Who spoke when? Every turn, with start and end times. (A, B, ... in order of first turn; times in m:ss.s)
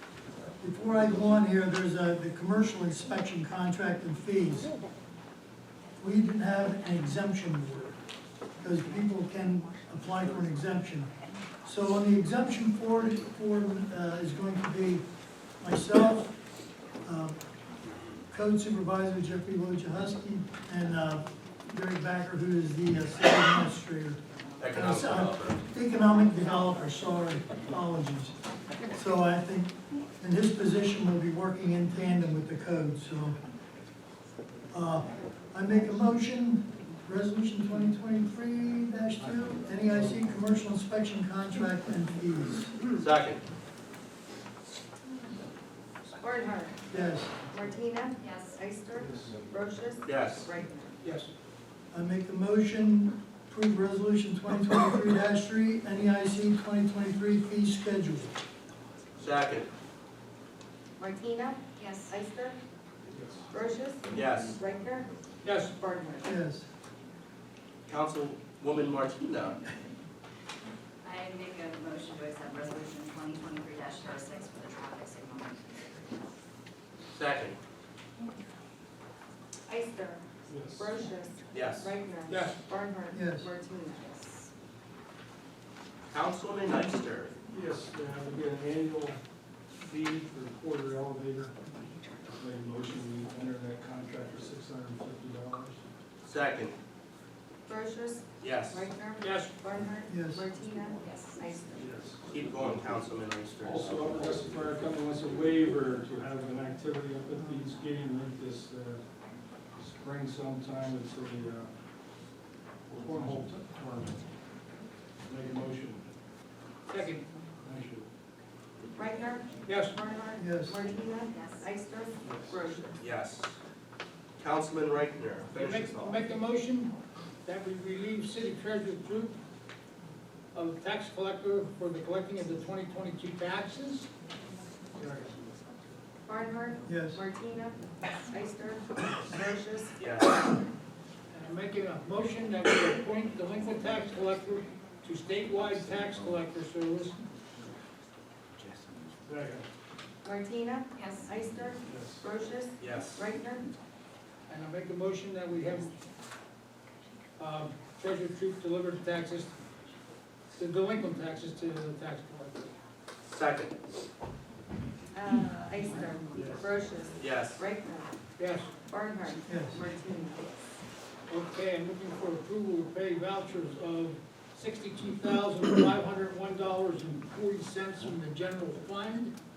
0:00.6-0:04.7 A
0:06.0-0:08.0 A
0:08.6-0:11.1 A
0:11.6-0:15.0 A
0:15.6-0:16.3 A
0:17.0-0:17.3 A
0:18.3-0:24.2 A
0:24.6-0:25.6 B
0:24.7-0:28.3 A
0:28.9-0:33.4 A
0:34.7-0:42.7 A
0:43.0-0:43.4 B
0:46.2-0:46.8 C
0:46.9-0:47.3 A
0:47.5-0:51.0 C
0:48.2-0:48.5 D
0:48.9-0:49.6 E
0:50.0-0:50.5 B
0:51.0-0:51.3 F
0:51.9-0:58.3 A
0:59.2-0:59.7 B
1:01.0-1:02.6 C
1:01.8-1:02.1 D
1:03.5-1:05.1 C
1:04.1-1:04.6 B
1:05.4-1:05.8 F
1:05.7-1:06.3 C
1:06.2-1:06.6 A
1:07.9-1:09.6 B
1:11.0-1:15.9 D
1:17.2-1:17.6 B
1:19.7-1:24.5 C
1:20.5-1:20.9 E
1:21.5-1:21.9 B
1:22.3-1:22.6 F
1:23.1-1:23.5 A
1:26.1-1:27.4 B
1:27.5-1:29.2 E
1:29.8-1:31.7 E
1:32.4-1:35.8 E
1:36.2-1:36.8 B
1:37.6-1:41.9 C
1:38.4-1:38.9 B
1:39.2-1:39.5 F
1:40.0-1:40.5 A
1:41.7-1:42.2 E
1:42.2-1:44.4 B
1:43.6-1:49.0 E
1:47.4-1:47.6 A
1:49.8-1:51.7 E
1:52.9-1:54.2 E
1:55.2-1:56.0 E
1:56.9-1:57.3 F
1:57.6-1:58.1 E
1:58.9-2:03.0 C
1:59.6-2:00.0 F
2:00.4-2:00.8 A
2:01.3-2:01.6 D
2:02.2-2:02.7 E
2:03.0-2:03.6 B
2:04.4-2:06.2 B
2:05.5-2:06.9 F
2:07.4-2:09.4 F
2:10.5-2:14.1 F
2:15.0-2:15.3 F
2:16.2-2:20.0 C
2:16.8-2:17.2 A
2:20.0-2:20.4 B
2:21.3-2:27.2 F
2:29.2-2:29.7 E
2:30.2-2:33.7 C
2:31.8-2:32.2 E
2:32.8-2:33.2 B
2:34.5-2:35.9 F
2:37.4-2:39.5 F
2:40.5-2:42.7 F
2:43.3-2:43.7 B
2:45.1-2:48.1 C
2:46.3-2:46.7 E
2:47.2-2:47.6 B
2:48.4-2:48.7 F
2:48.9-2:50.5 C
2:49.5-2:49.8 A
2:51.3-2:59.3 F